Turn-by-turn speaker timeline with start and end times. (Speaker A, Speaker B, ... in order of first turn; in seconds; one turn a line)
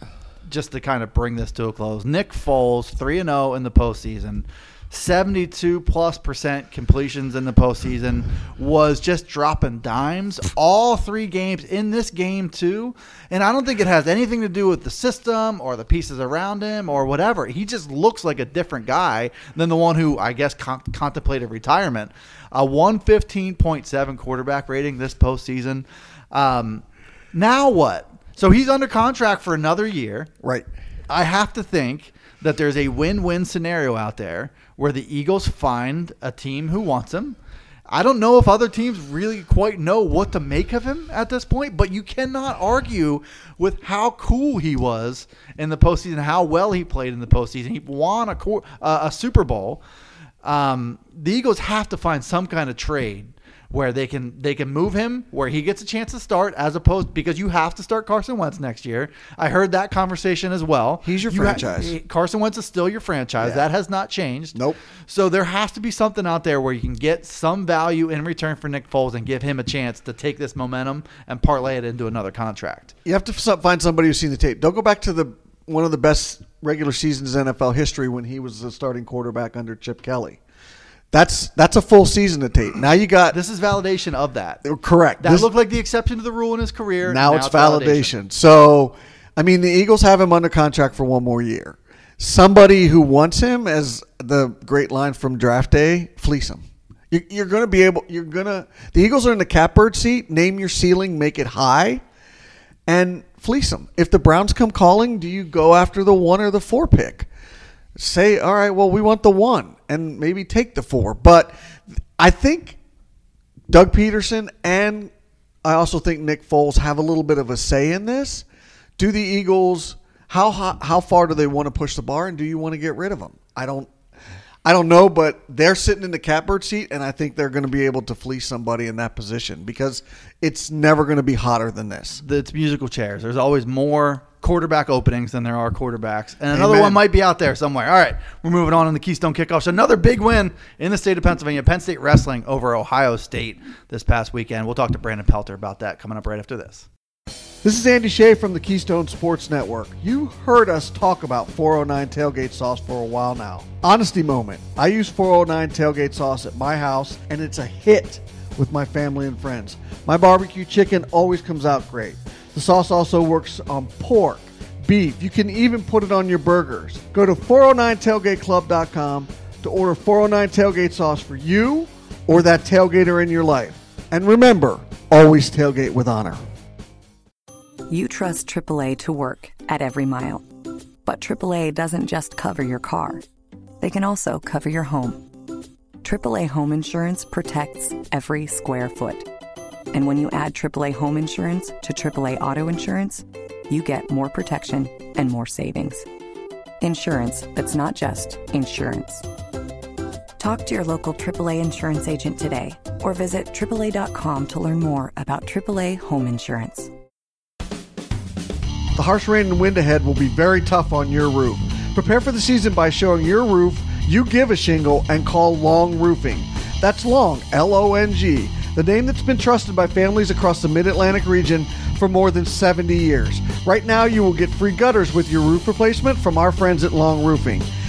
Speaker A: 0.5-30.3
Speaker B: 30.4-30.7
Speaker A: 31.1-37.4
Speaker A: 37.9-49.8
Speaker A: 50.4-72.9
Speaker B: 61.0-62.0
Speaker B: 63.4-63.7
Speaker B: 73.0-80.4
Speaker B: 81.1-83.4
Speaker A: 83.3-84.6
Speaker B: 84.6-85.5
Speaker A: 85.2-88.1
Speaker B: 87.0-102.0
Speaker B: 102.9-107.3
Speaker B: 108.0-111.5
Speaker B: 112.2-112.8
Speaker B: 113.7-115.1
Speaker B: 115.6-118.4
Speaker B: 119.0-123.9
Speaker B: 124.6-132.2
Speaker A: 132.2-146.9
Speaker B: 136.5-137.0
Speaker B: 147.6-176.4
Speaker C: 177.9-180.4
Speaker C: 181.1-183.2
Speaker C: 183.8-185.2
Speaker C: 186.0-189.2
Speaker C: 189.9-196.1
Speaker C: 196.8-199.2
Speaker C: 200.4-206.9
Speaker B: 208.9-227.7